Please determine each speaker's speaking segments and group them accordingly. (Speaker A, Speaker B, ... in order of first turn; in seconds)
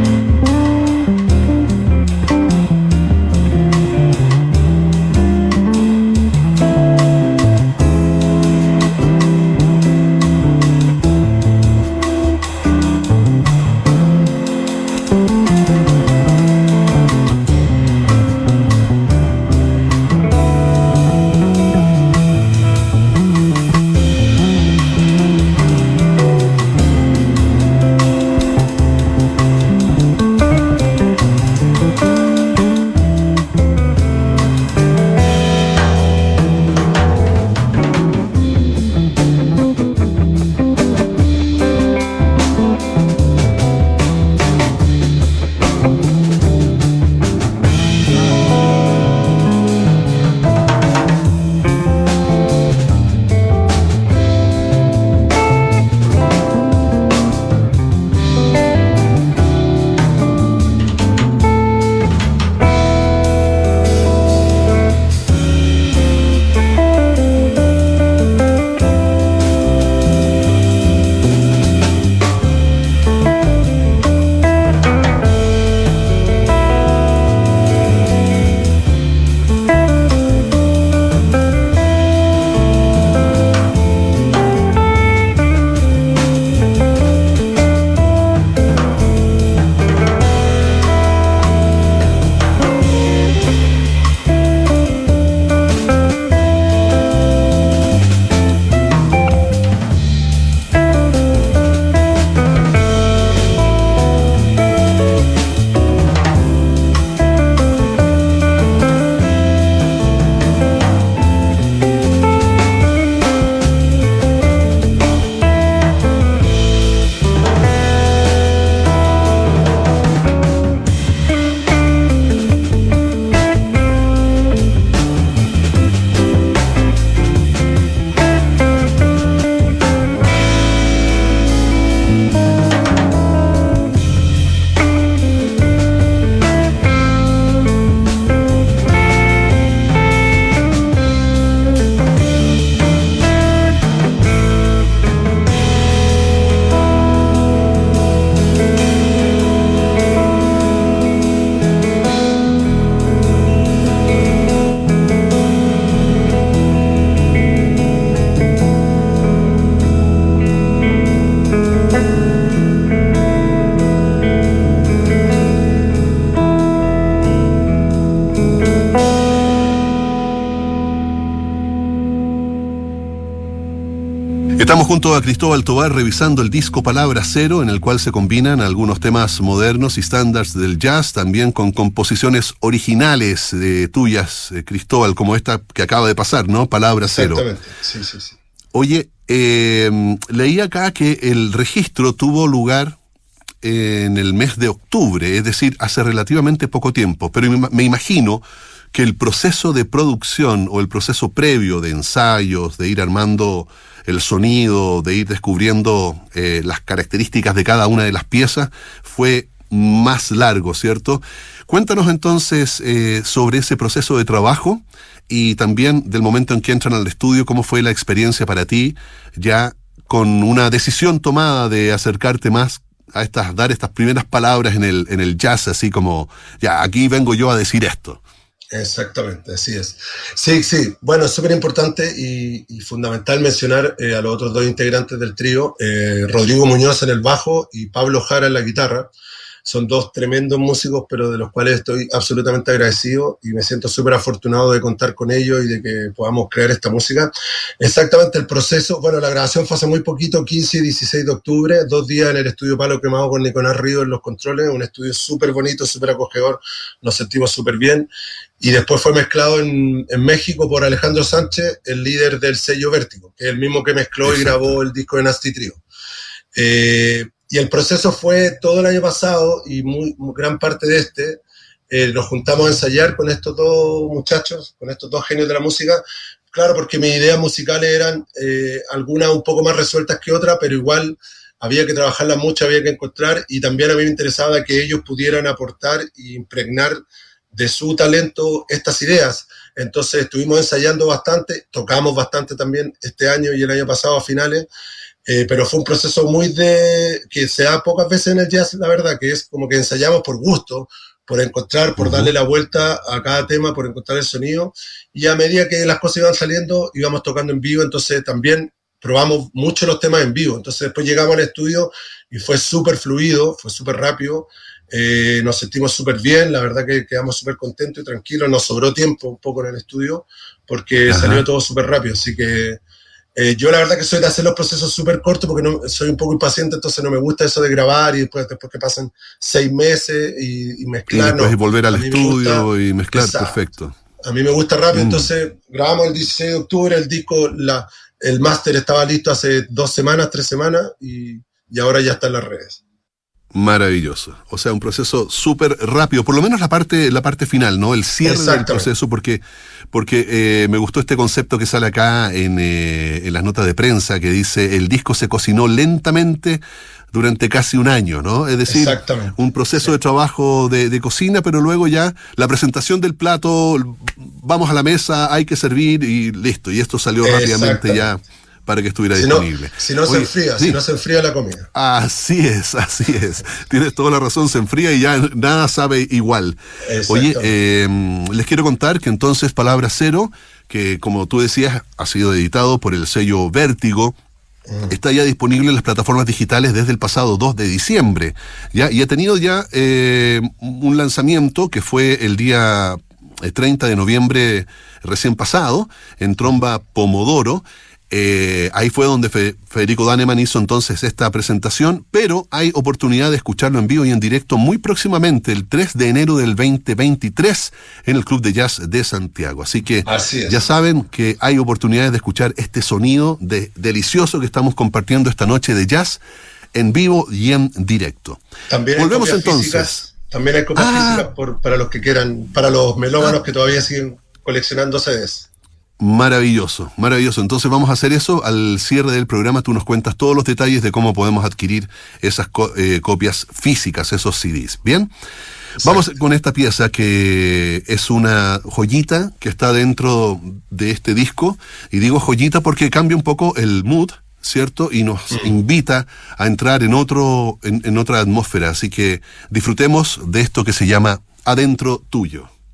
Speaker A: 174.6-187.4, 188.7-193.0, 193.6-228.2, 264.2-264.8, 302.0-302.3, 321.1-321.4, 331.1-334.0, 334.9-335.3, 343.5-356.6, 357.1-370.8, 371.7-384.2, 384.9-416.2, 416.8-418.4, 419.0-420.1, 420.8-421.3, 426.0-435.1, 435.8-452.5
Speaker B: 187.1-188.4, 228.7-239.1, 239.7-258.1, 258.6-265.8, 266.5-287.0, 287.5-294.7, 295.3-322.8, 323.4-333.6, 334.2-342.8, 348.2-348.9, 358.7-359.9, 367.2-368.1, 369.1-371.7, 376.8-377.5, 410.1-410.6, 418.7-425.5